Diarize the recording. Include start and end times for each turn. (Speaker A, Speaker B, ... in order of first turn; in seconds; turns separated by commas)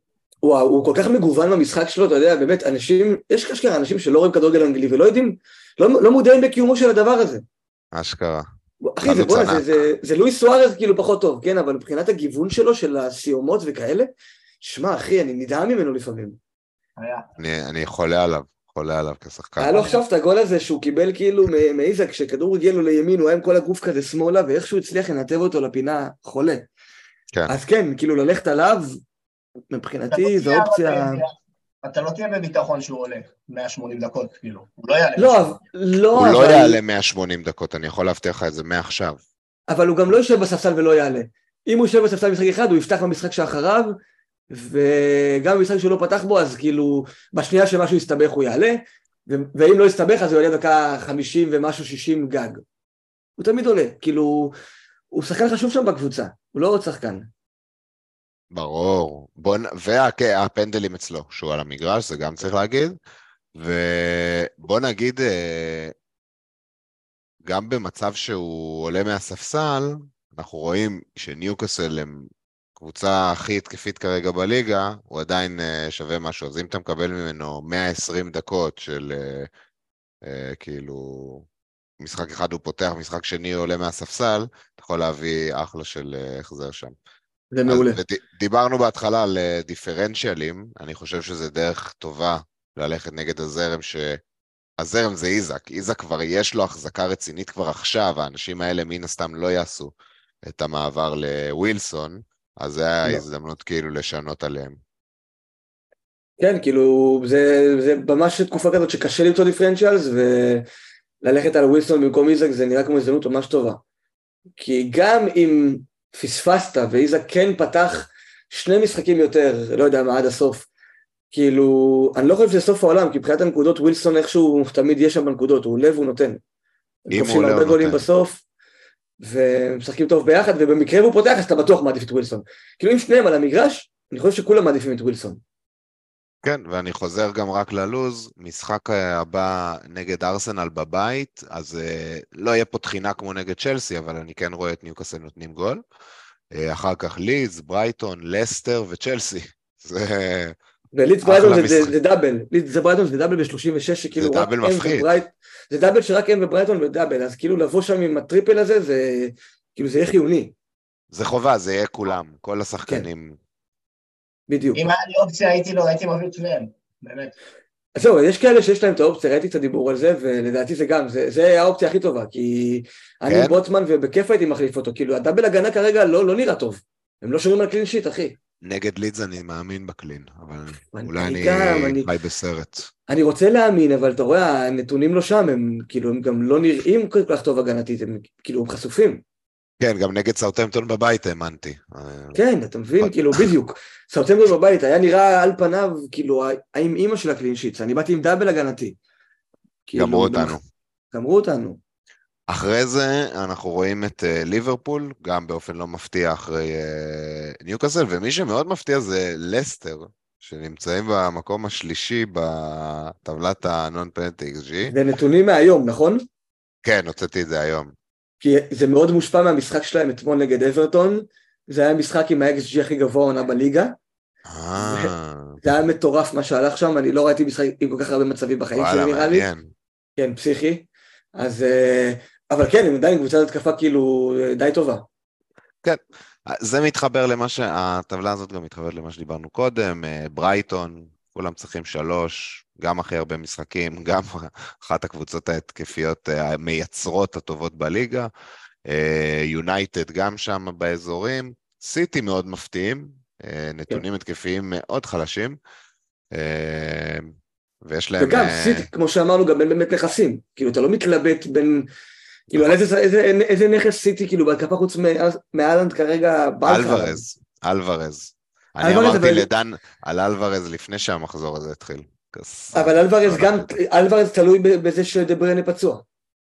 Speaker A: 0.4-7.4, Speaker B: 7.9-8.5, Speaker A: 8.8-14.1, Speaker B: 9.0-9.8, Speaker A: 14.6-16.4, Speaker C: 17.0-17.3, Speaker B: 17.4-19.9, Speaker A: 19.6-26.7, Speaker A: 27.5-29.0, Speaker A: 29.7-31.2, Speaker C: 30.1-35.6, Speaker A: 35.2-36.8, Speaker B: 36.1-39.2, Speaker A: 39.7-44.0, Speaker A: 44.5-52.6, Speaker A: 53.4-54.6, Speaker A: 55.1-57.3, Speaker B: 58.5-63.0, Speaker B: 63.5-65.9, Speaker B: 67.4-79.5, Speaker B: 80.2-81.5, Speaker B: 82.0-87.0, Speaker A: 87.5-88.0, Speaker B: 87.7-94.2, Speaker B: 94.8-104.8, Speaker A: 106.4-110.7, Speaker A: 111.2-113.8, Speaker A: 114.6-120.7, Speaker A: 121.3-126.4, Speaker A: 127.1-128.4, Speaker B: 127.1-128.0, Speaker A: 129.2-135.4, Speaker B: 136.4-145.8, Speaker B: 146.5-150.6, Speaker A: 150.9-160.5, Speaker B: 151.2-151.9, Speaker B: 154.2-155.1, Speaker B: 161.1-163.4, Speaker A: 164.5-164.8, Speaker C: 164.8-167.4, Speaker A: 168.0-178.4, Speaker B: 173.3-173.6, Speaker B: 178.6-182.9, Speaker A: 180.9-182.1, Speaker A: 183.1-189.2, Speaker B: 189.8-192.4, Speaker A: 192.3-199.0, Speaker B: 193.0-193.5, Speaker A: 199.9-200.6, Speaker B: 200.0-200.6, Speaker A: 201.1-201.8, Speaker B: 202.5-214.9, Speaker A: 214.9-216.2, Speaker B: 216.8-217.9, Speaker A: 218.4-223.9, Speaker B: 224.5-225.6, Speaker A: 224.8-229.5, Speaker B: 228.8-229.7, Speaker A: 230.2-235.1, Speaker B: 235.8-248.3, Speaker B: 248.8-255.6, Speaker B: 256.3-258.9, Speaker A: 258.2-261.9, Speaker A: 262.5-267.2, Speaker B: 266.6-273.8, Speaker A: 268.8-269.5, Speaker A: 272.7-276.1